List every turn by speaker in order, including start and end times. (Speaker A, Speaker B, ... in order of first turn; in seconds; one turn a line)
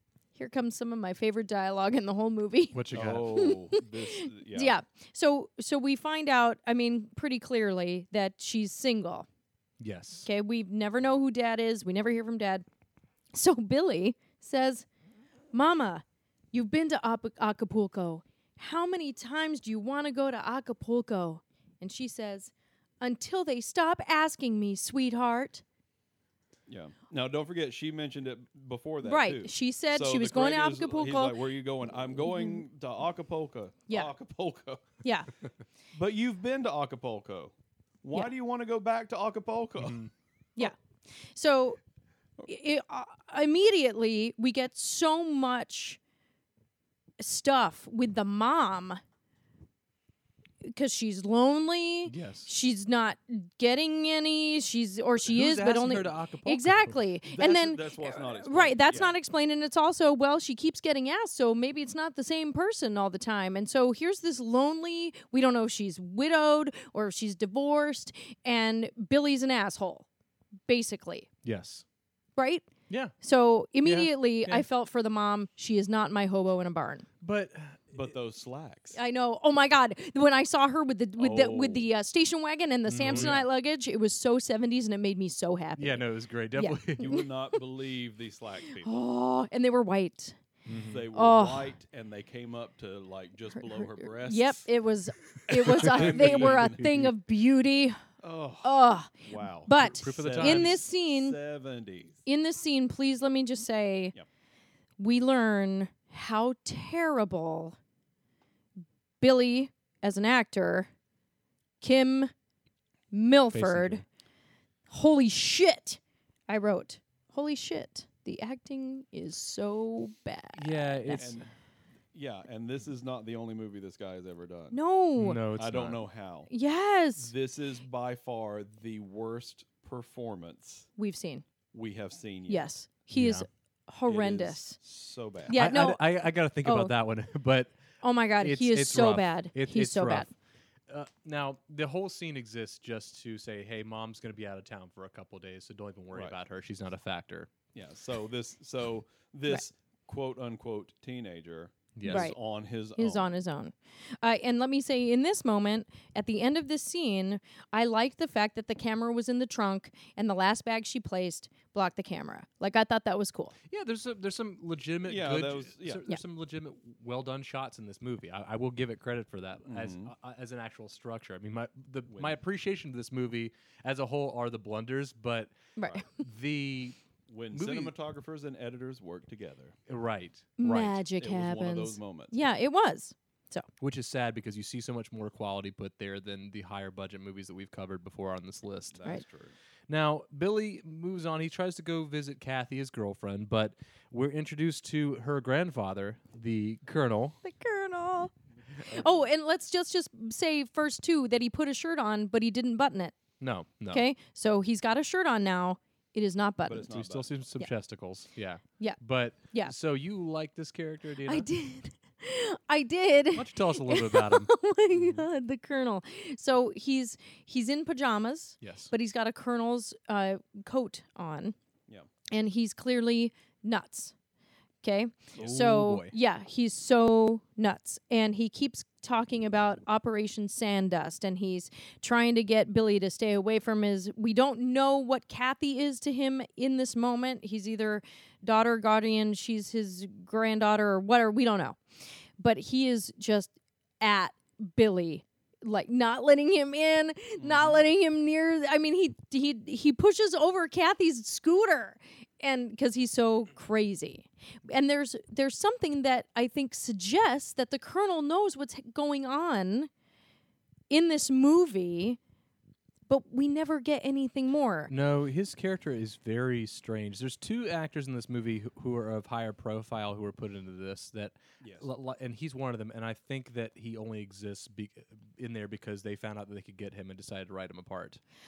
Speaker A: 0.4-9.3
Speaker B: 2.7-3.5
Speaker C: 2.9-4.8
Speaker B: 9.8-10.3
Speaker A: 10.2-12.7
Speaker A: 13.3-14.9
Speaker A: 15.5-25.6
Speaker C: 26.7-34.9
Speaker A: 29.0-31.4
Speaker A: 32.3-32.6
Speaker A: 35.0-35.3
Speaker C: 35.9-40.0
Speaker B: 39.8-40.1
Speaker A: 41.3-41.8
Speaker A: 42.5-46.0
Speaker A: 47.2-49.0
Speaker A: 50.6-70.1
Speaker B: 52.0-52.5
Speaker B: 55.2-57.0
Speaker C: 57.3-59.2
Speaker A: 70.7-71.3
Speaker B: 71.4-71.8
Speaker A: 72.4-72.7
Speaker B: 72.9-73.1
Speaker A: 73.2-77.1
Speaker B: 73.8-74.7
Speaker B: 77.2-78.1
Speaker C: 77.9-79.0
Speaker A: 78.9-87.2
Speaker C: 81.2-81.9
Speaker B: 82.9-83.5
Speaker C: 83.0-83.4
Speaker B: 85.8-87.2
Speaker C: 87.0-89.0
Speaker A: 88.8-90.4
Speaker B: 90.7-91.1
Speaker C: 90.9-94.7
Speaker A: 91.1-91.7
Speaker A: 93.6-98.0
Speaker B: 95.5-97.1
Speaker C: 95.5-96.9
Speaker C: 98.2-102.2
Speaker A: 98.6-101.4
Speaker B: 99.8-100.8
Speaker A: 102.3-104.2
Speaker A: 105.0-107.8
Speaker A: 109.2-110.9
Speaker A: 111.8-112.3
Speaker A: 113.1-114.0
Speaker B: 113.5-114.0
Speaker A: 114.9-121.3
Speaker B: 120.6-121.4
Speaker C: 121.2-121.5
Speaker C: 122.1-124.8
Speaker A: 124.7-125.4
Speaker B: 125.2-126.0
Speaker C: 125.6-126.5
Speaker A: 126.5-127.3
Speaker C: 127.2-130.9
Speaker A: 131.0-131.4
Speaker C: 131.7-132.7
Speaker A: 132.5-134.8
Speaker B: 133.1-133.5
Speaker C: 134.1-135.6
Speaker A: 135.5-136.0
Speaker B: 135.5-137.8
Speaker A: 136.6-136.9
Speaker A: 138.0-140.3
Speaker B: 138.4-140.3
Speaker B: 140.9-147.5
Speaker C: 147.7-153.3
Speaker B: 152.0-152.3
Speaker A: 152.1-152.4
Speaker A: 153.0-163.6
Speaker B: 163.7-175.6
Speaker C: 165.1-166.0
Speaker C: 169.7-170.1
Speaker C: 172.1-172.4
Speaker A: 175.8-176.1
Speaker B: 176.2-177.0
Speaker C: 177.3-179.8
Speaker B: 177.5-177.9
Speaker B: 179.9-181.0
Speaker A: 180.6-183.7
Speaker C: 181.2-182.5
Speaker B: 183.8-189.0
Speaker C: 188.9-189.6
Speaker B: 189.9-197.4
Speaker A: 197.4-198.3
Speaker C: 198.8-199.3
Speaker A: 198.9-203.2
Speaker B: 203.4-204.1
Speaker A: 203.9-206.9
Speaker C: 206.7-207.4
Speaker B: 206.9-211.5
Speaker A: 211.3-221.6
Speaker B: 213.3-214.5
Speaker B: 218.6-218.9
Speaker A: 222.3-224.1
Speaker A: 224.8-241.8
Speaker B: 225.4-226.1
Speaker A: 242.4-259.9
Speaker C: 247.4-247.8
Speaker A: 260.9-262.2
Speaker A: 263.1-264.9
Speaker B: 264.9-278.2
Speaker C: 271.6-271.9